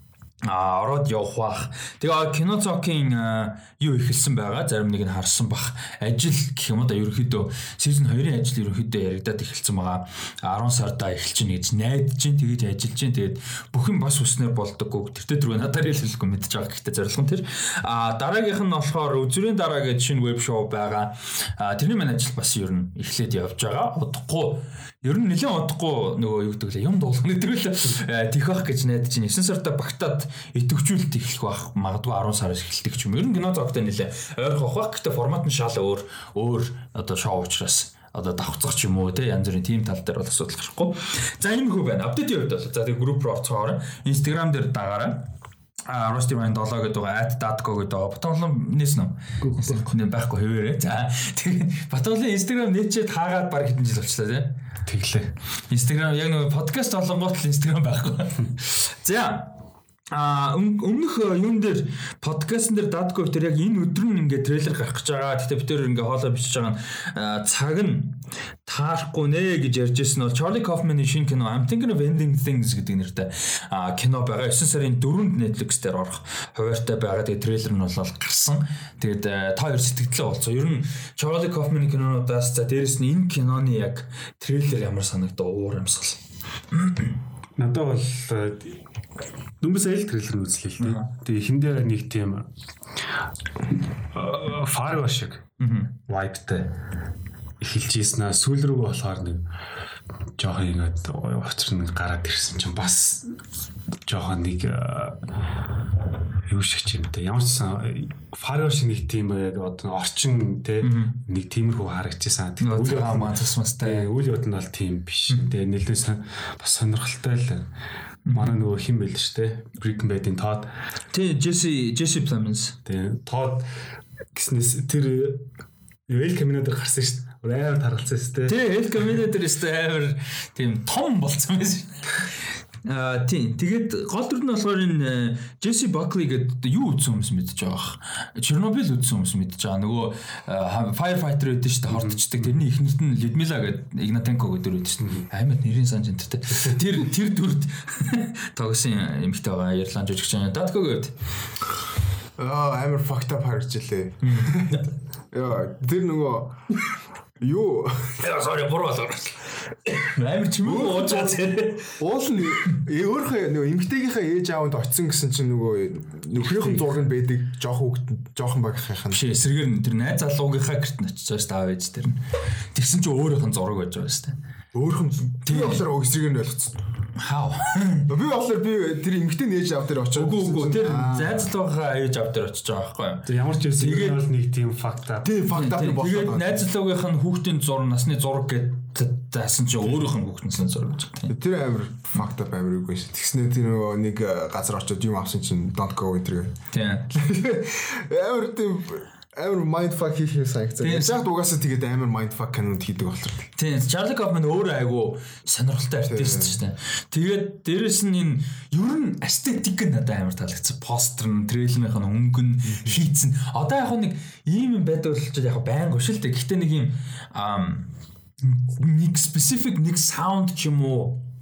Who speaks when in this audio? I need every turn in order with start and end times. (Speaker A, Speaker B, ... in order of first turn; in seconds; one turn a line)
Speaker A: 0.4-45.3
Speaker A: 45.9-54.6
Speaker B: 49.4-49.9
Speaker B: 54.9-55.3
Speaker A: 55.7-59.5
Speaker A: 60.1-86.2
Speaker A: 86.7-87.2
Speaker B: 87.6-88.8
Speaker B: 89.6-92.5
Speaker A: 90.8-91.1
Speaker B: 94.1-95.5
Speaker A: 95.6-96.0
Speaker B: 96.1-96.8
Speaker B: 97.6-99.4
Speaker B: 100.4-103.4
Speaker B: 104.1-105.6
Speaker B: 106.5-117.7
Speaker A: 110.8-111.2
Speaker A: 112.6-114.1
Speaker A: 118.3-118.6
Speaker B: 118.3-120.7
Speaker A: 121.1-122.8
Speaker B: 122.9-123.7
Speaker B: 124.3-125.5
Speaker B: 126.1-128.6
Speaker A: 128.5-132.2
Speaker A: 132.8-151.1
Speaker B: 141.9-142.5
Speaker B: 145.0-145.3
Speaker C: 152.4-156.6
Speaker A: 154.2-154.8
Speaker C: 157.4-158.2
Speaker A: 158.2-162.0
Speaker C: 160.6-161.4
Speaker C: 162.0-169.2
Speaker B: 166.4-166.9
Speaker A: 169.1-172.2
Speaker A: 172.7-174.4
Speaker C: 174.7-176.8
Speaker A: 175.4-175.8
Speaker A: 177.2-178.1
Speaker C: 178.1-181.5
Speaker A: 180.2-183.3
Speaker B: 183.3-185.3
Speaker A: 183.8-184.2
Speaker C: 185.2-186.7
Speaker A: 185.5-191.3
Speaker C: 191.3-196.6
Speaker A: 196.7-197.1
Speaker C: 197.1-203.5
Speaker A: 200.8-201.3
Speaker A: 203.6-217.9
Speaker C: 206.1-206.6
Speaker C: 212.7-213.0
Speaker A: 218.4-221.2